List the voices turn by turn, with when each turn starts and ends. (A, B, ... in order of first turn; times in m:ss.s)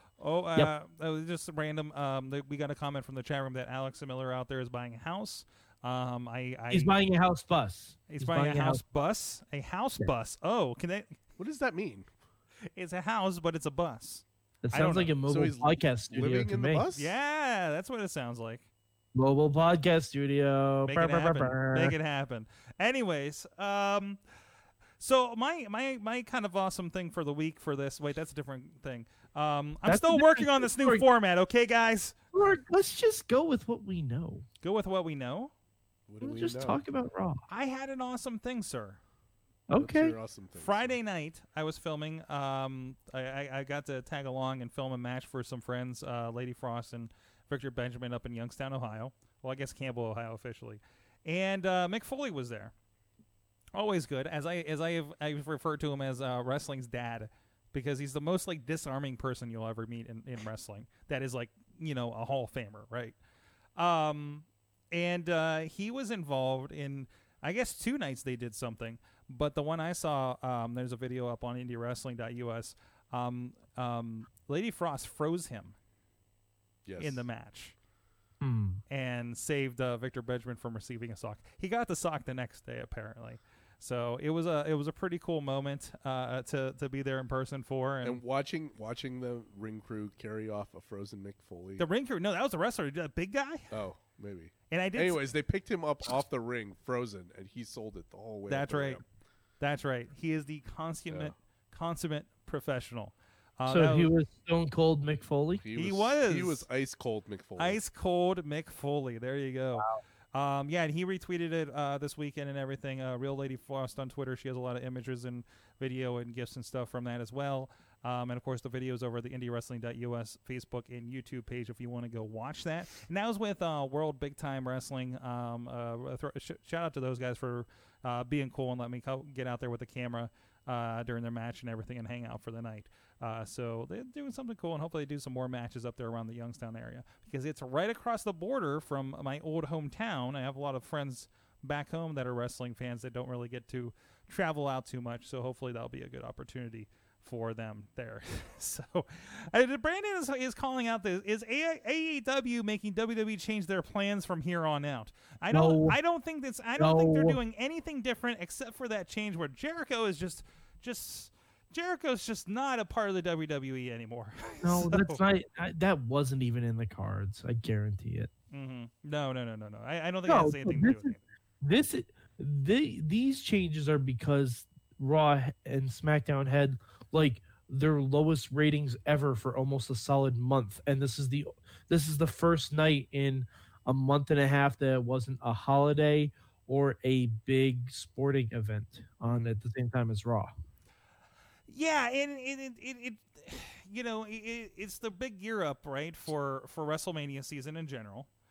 0:00.2-0:06.9 A
0:06.7-0:08.8 B
0:08.1-0:11.2 A
0:11.4-0:12.1 C
0:12.7-0:15.1 A
0:14.6-0:16.9 B
0:15.3-0:17.2 C
0:16.9-0:18.6 A
0:19.2-0:22.0 B
0:20.9-0:24.2 A
0:25.0-0:32.2 A
0:29.9-0:31.0 B
0:32.3-0:34.4 B
0:34.6-0:35.5 A
0:36.1-0:36.8 C
0:36.2-0:37.4 B
0:37.5-0:39.0 A
0:39.7-0:40.2 B
0:39.8-0:40.9 C
0:40.6-0:52.7 A
0:53.7-1:03.2 A
1:03.8-1:15.8 A
1:16.9-1:17.2 C
1:17.0-1:17.8 A
1:18.4-1:18.8 B
1:18.9-1:28.2 A
1:28.0-1:31.8 C
1:31.8-1:33.8 A
1:33.7-1:39.0 C
1:34.7-1:35.2 A
1:38.5-1:39.0 A
1:39.6-1:44.1 A
1:43.7-1:45.6 B
1:45.6-1:47.8 C
1:45.8-1:46.7 A
1:47.6-2:45.2 A
2:35.5-2:36.0 B
2:36.8-2:37.4 B
2:44.6-2:48.3 B
2:48.5-2:51.2 A
2:50.3-3:10.5 B
3:11.7-3:18.3 A